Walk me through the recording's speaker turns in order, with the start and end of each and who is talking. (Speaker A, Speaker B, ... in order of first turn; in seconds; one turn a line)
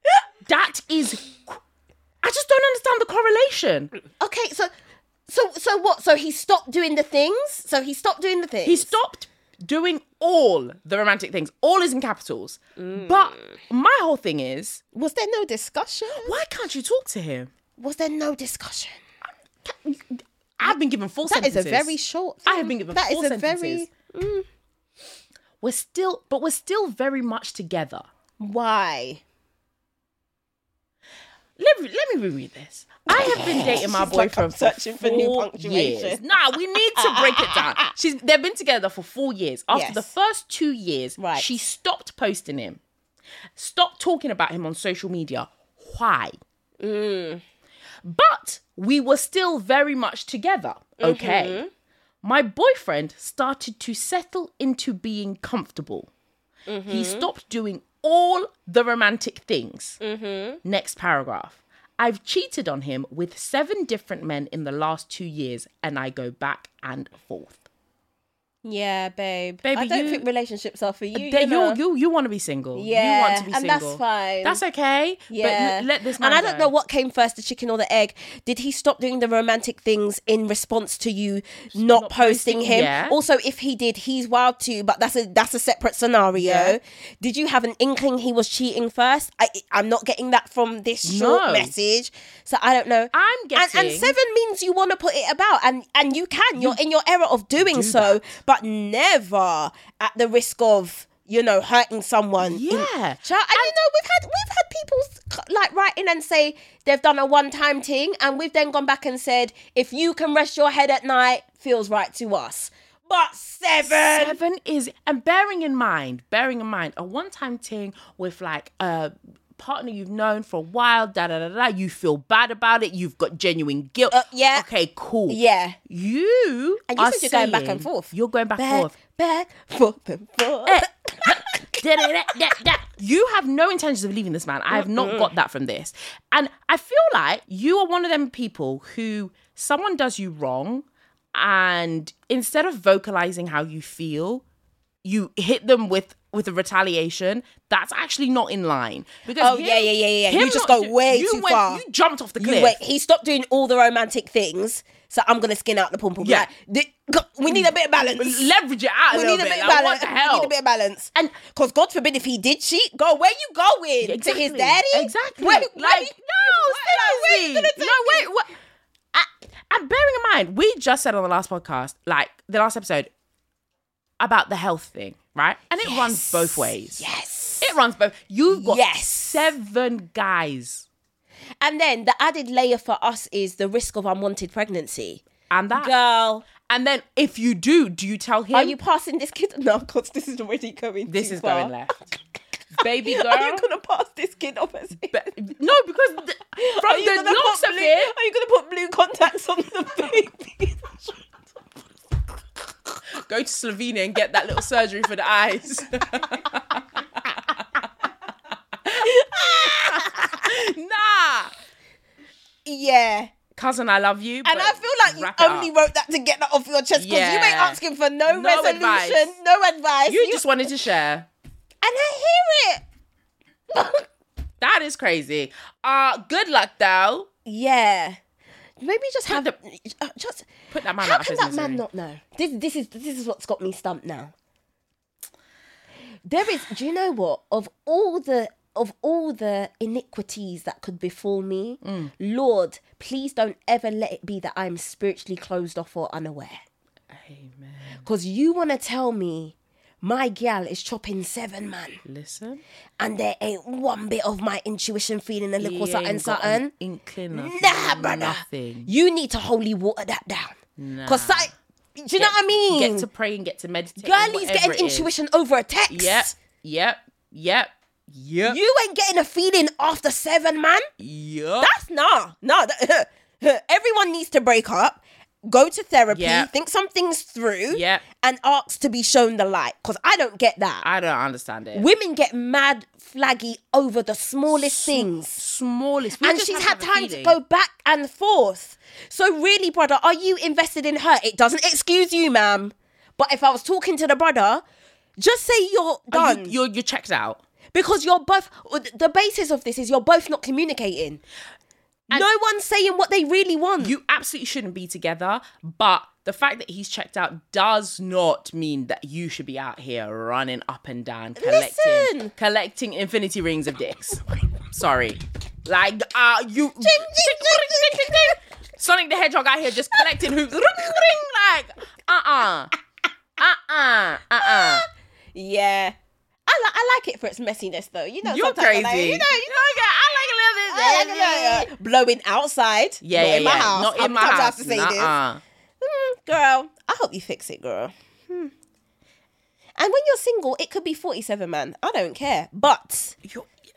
Speaker A: 0.5-1.6
Speaker A: 2.2-3.9
Speaker B: 4.2-4.7
Speaker B: 5.3-8.9
Speaker A: 8.6-14.8
Speaker B: 12.8-13.5
Speaker B: 14.9-16.4
Speaker A: 16.2-17.5
Speaker B: 17.8-19.0
Speaker A: 19.7-21.9
Speaker B: 20.6-24.5
Speaker A: 22.4-23.9
Speaker A: 25.6-28.1
Speaker B: 28.4-29.2
Speaker A: 31.6-42.8
Speaker B: 33.1-36.3
Speaker B: 37.0-37.9
Speaker B: 39.7-40.1
Speaker B: 41.2-41.6
Speaker A: 43.6-46.4
Speaker B: 46.8-47.4
Speaker A: 48.0-51.6
Speaker B: 51.0-51.7
Speaker A: 52.2-56.1
Speaker B: 56.7-57.3
Speaker A: 56.9-60.0
Speaker B: 60.0-60.6
Speaker A: 60.6-67.7
Speaker B: 68.6-71.8
Speaker A: 69.6-70.2
Speaker A: 71.2-76.7
Speaker B: 72.7-74.6
Speaker B: 75.3-114.4
Speaker A: 81.7-83.2
Speaker A: 86.4-86.8
Speaker A: 91.0-91.7
Speaker A: 93.1-94.2
Speaker A: 97.6-98.2
Speaker A: 102.4-103.7
Speaker A: 113.8-128.9
Speaker B: 124.1-124.7
Speaker B: 125.3-125.8
Speaker B: 126.9-132.3
Speaker A: 130.7-144.4
Speaker B: 134.7-135.3
Speaker A: 145.0-152.8
Speaker B: 149.4-151.8
Speaker B: 152.4-158.5
Speaker A: 156.2-156.5
Speaker A: 157.5-160.5
Speaker B: 159.1-168.3
Speaker A: 164.0-168.5
Speaker A: 169.2-173.1
Speaker A: 174.2-177.0
Speaker B: 175.8-177.8
Speaker A: 177.6-180.9
Speaker B: 178.5-179.5
Speaker B: 181.6-186.5
Speaker A: 185.5-185.9
Speaker A: 186.6-188.8
Speaker B: 188.5-191.7
Speaker A: 191.1-192.1
Speaker A: 192.8-193.7
Speaker B: 193.0-195.3
Speaker A: 195.1-198.1
Speaker B: 196.5-201.2
Speaker A: 203.2-207.3
Speaker B: 208.9-210.5
Speaker A: 209.6-211.5
Speaker B: 212.7-213.3
Speaker A: 213.6-215.7
Speaker B: 214.4-220.4
Speaker A: 216.9-219.3
Speaker A: 220.1-221.3
Speaker B: 221.8-222.8
Speaker B: 223.7-224.1
Speaker A: 224.6-227.3
Speaker B: 227.4-228.2
Speaker B: 228.8-234.3
Speaker A: 229.3-229.5
Speaker A: 230.7-231.8
Speaker B: 236.3-246.6
Speaker A: 241.8-242.1
Speaker A: 247.1-248.1
Speaker B: 248.0-252.0
Speaker A: 252.1-252.6
Speaker B: 253.0-256.7
Speaker A: 255.6-258.9
Speaker B: 257.3-263.1
Speaker A: 260.8-261.5
Speaker A: 262.1-265.1
Speaker B: 264.0-266.3
Speaker A: 265.9-268.6
Speaker B: 268.5-270.9
Speaker A: 271.0-271.7
Speaker B: 271.6-280.9
Speaker A: 276.1-276.5
Speaker A: 277.7-278.0
Speaker A: 280.8-281.9
Speaker B: 281.7-285.4
Speaker A: 284.5-287.4
Speaker B: 286.2-294.6
Speaker B: 295.2-296.6
Speaker A: 296.1-297.4
Speaker B: 297.7-301.2
Speaker B: 302.1-303.9
Speaker A: 303.8-322.7
Speaker B: 311.4-312.3
Speaker B: 316.8-318.4
Speaker B: 320.0-320.3
Speaker A: 323.4-324.9
Speaker B: 324.4-325.9
Speaker B: 326.5-335.2
Speaker A: 328.2-331.7
Speaker A: 333.0-335.4
Speaker B: 335.8-338.5
Speaker B: 339.8-343.2